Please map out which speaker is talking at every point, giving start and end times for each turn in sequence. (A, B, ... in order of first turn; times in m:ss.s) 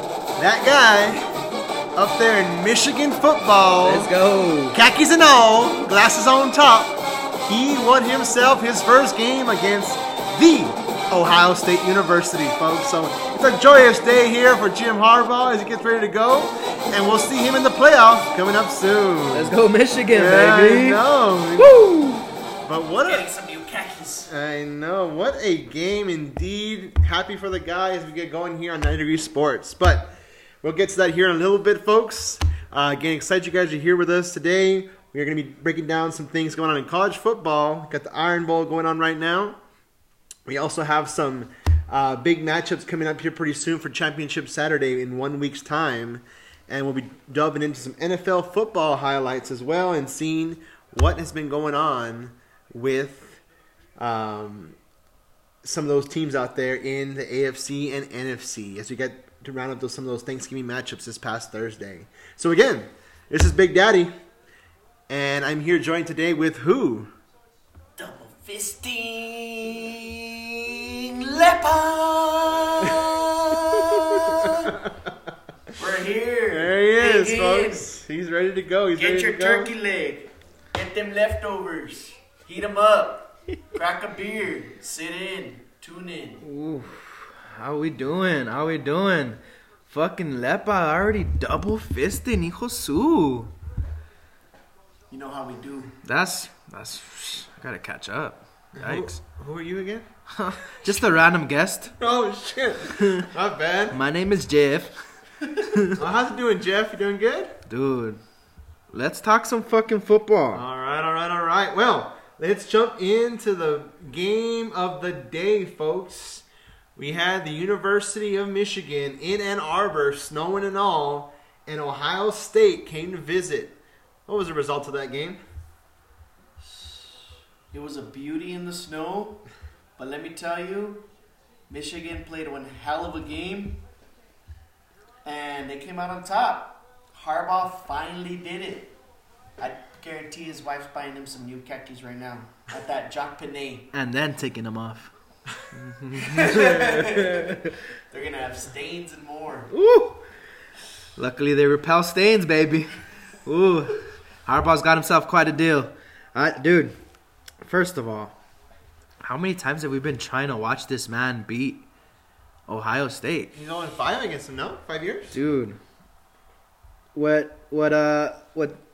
0:00.4-0:01.3 A
0:01.9-0:04.1 A
0:03.8-0:04.8 B
0:04.7-0:19.6 A
0:19.3-0:21.0 B
0:20.1-0:21.8 A
0:21.6-0:22.3 B
0:22.6-0:23.3 A
0:23.0-0:24.3 C
0:24.3-0:39.6 A
0:40.4-0:53.4 A
0:54.0-0:54.8 A
0:55.6-1:04.1 A
1:05.1-1:07.1 A
1:08.0-1:14.8 C
1:14.1-1:14.9 A
1:15.7-1:17.9 C
1:16.5-1:19.7 A
1:19.0-1:26.5 C
1:26.4-1:33.5 B
1:35.1-1:36.0 C
1:36.0-1:39.2 B
1:38.8-1:40.1 A
1:40.3-1:41.9 B
1:42.0-1:44.0 A
1:43.0-1:43.3 B
1:43.9-1:46.0 B
1:45.9-1:47.6 A
1:47.7-1:48.2 B
1:48.9-1:50.6 B
1:50.5-2:05.4 A
2:06.6-2:09.4 C
2:10.0-2:11.0 C
2:11.7-2:13.8 C
2:15.2-2:18.9 C
2:19.6-2:23.9 C
2:23.9-2:25.1 B
2:25.7-2:27.7 B
2:26.2-2:29.7 C
2:29.7-2:30.2 B
2:31.2-2:36.9 B
2:37.6-2:38.4 B
2:39.2-2:41.8 B
2:42.7-2:43.5 B
2:43.5-2:45.4 A
2:45.3-2:45.8 B
2:47.1-2:48.8 B